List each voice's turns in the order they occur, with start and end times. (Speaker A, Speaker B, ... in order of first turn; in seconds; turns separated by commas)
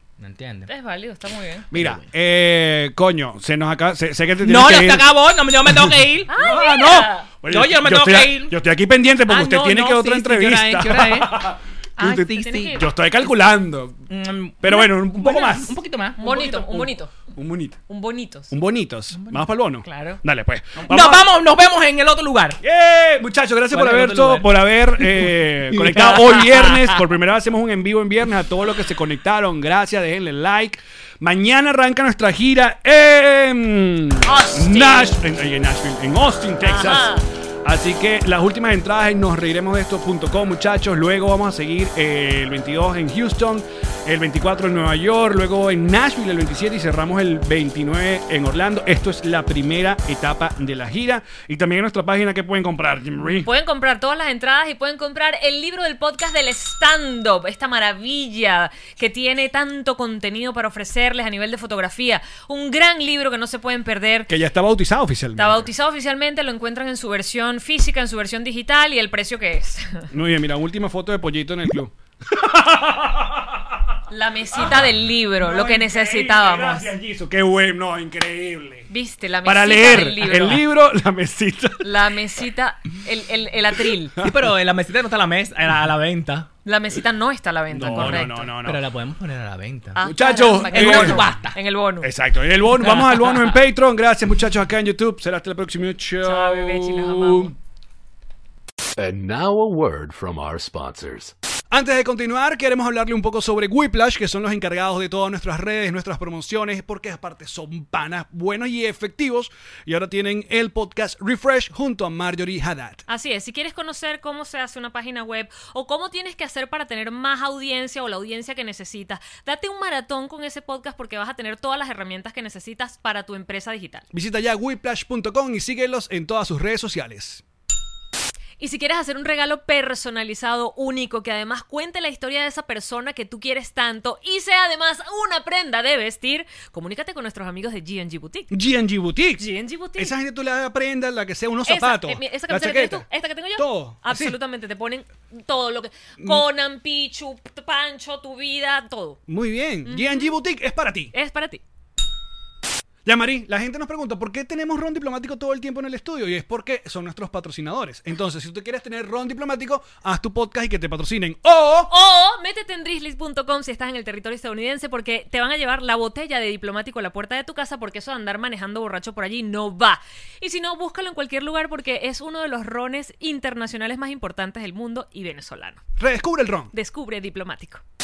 Speaker A: 0.2-0.7, Speaker B: 0.7-1.7, Speaker A: 1.7-2.1, Speaker C: 1.7-5.8, Speaker A: 4.4-6.3, Speaker B: 6.3-7.3, Speaker C: 6.3-14.0, Speaker A: 7.5-8.6, Speaker A: 9.2-11.4, Speaker A: 12.0-12.8, Speaker B: 12.3-12.9, Speaker A: 14.1-16.6, Speaker C: 14.6-17.8, Speaker B: 16.2-17.3, Speaker B: 17.9-18.5, Speaker C: 18.5-21.2, Speaker A: 19.1-20.2, Speaker A: 20.9-22.6, Speaker C: 22.6-53.5, Speaker A: 23.7-26.4, Speaker B: 26.7-26.9, Speaker B: 34.2-35.2, Speaker B: 36.6-37.2, Speaker B: 53.3-64.3, Speaker C: 64.3-65.7, Speaker B: 65.4-70.1, Speaker C: 70.1-73.8, Speaker B: 74.1-76.9, Speaker C: 74.5-78.9, Speaker B: 78.9-80.7, Speaker C: 79.4-82.0, Speaker B: 81.8-84.2, Speaker A: 84.2-86.5, Speaker B: 86.6-88.5, Speaker C: 87.7-88.8, Speaker A: 88.6-90.1, Speaker B: 89.9-92.1, Speaker C: 90.0-91.3, Speaker A: 90.7-91.6, Speaker C: 92.0-97.5, Speaker A: 92.8-93.6, Speaker B: 96.2-97.5, Speaker D: 99.0-101.3, Speaker C: 101.7-113.0, Speaker B: 113.1-124.0, Speaker C: 124.1-127.4, Speaker B: 128.6-138.5, Speaker C: 138.5-139.4, Speaker B: 139.4-140.1, Speaker C: 139.9-144.3, Speaker B: 141.7-149.2, Speaker C: 149.3-151.1, Speaker B: 149.8-150.3, Speaker B: 151.1-151.6, Speaker C: 153.0-161.9, Speaker B: 161.9-175.8, Speaker C: 176.0-176.7, Speaker B: 176.7-177.8